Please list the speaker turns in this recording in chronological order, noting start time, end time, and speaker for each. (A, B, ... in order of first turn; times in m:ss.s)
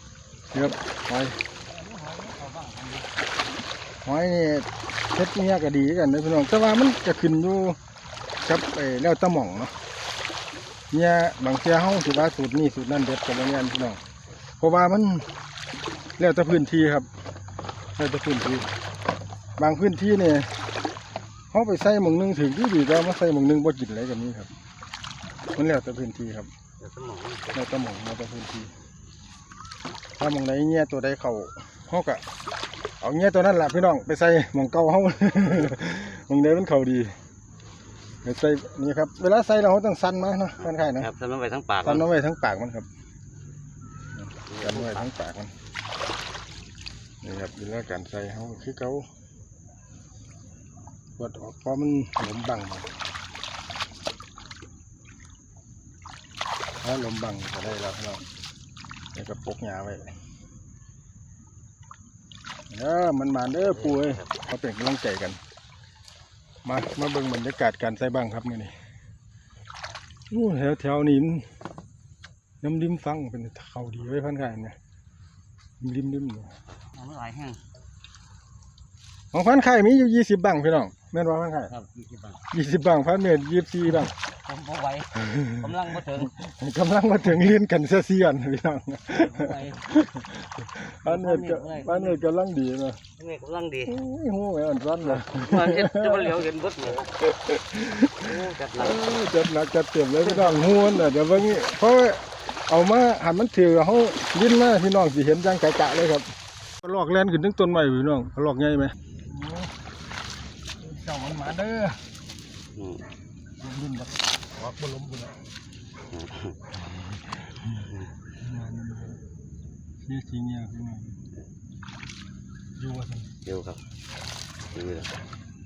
0:00.5-0:01.3 A
0:01.7-0:03.1 B
0:04.0-0:07.8 A
0:08.4-0:09.7 A
0:10.9-0:14.0 A
0:14.6-0:15.2 A
0:16.2-0:17.1 A
0:18.0-0:18.7 A
0:19.6-0:20.5 A
0:21.5-0:24.5 A
0:25.6-0:26.5 A
0:26.8-0:27.8 B
0:27.5-0:28.7 A
0:30.2-0:32.2 A
0:33.0-0:37.1 A
0:38.2-0:41.1 A
0:40.6-0:42.1 B
0:41.8-0:42.9 A
0:44.5-0:45.0 B
0:44.6-0:45.5 A
0:47.2-0:49.0 A
0:51.2-0:52.9 A
0:56.8-0:58.2 A
0:59.1-1:00.0 A
1:02.7-1:05.4 A
1:03.6-1:04.3 B
1:06.6-1:08.7 A
1:10.3-1:11.4 A
1:12.6-1:14.8 A
1:15.8-1:16.5 A
1:16.9-1:17.6 B
1:19.3-1:21.7 A
1:21.7-1:22.4 B
1:22.5-1:24.1 A
1:24.4-1:26.3 B
1:25.2-1:33.0 A
1:29.1-1:29.8 B
1:31.0-1:32.2 B
1:33.2-1:34.0 B
1:33.9-1:36.4 A
1:35.0-1:37.1 B
1:37.2-1:46.2 A
1:38.2-1:39.2 B
1:46.8-1:49.7 A
1:50.8-1:52.0 A
1:52.8-1:53.0 B
1:53.6-1:55.4 A
1:56.1-1:56.7 B
1:58.4-1:59.2 A
2:00.0-2:01.2 A
2:02.8-2:03.3 A
2:03.4-2:03.8 B
2:04.7-2:05.1 B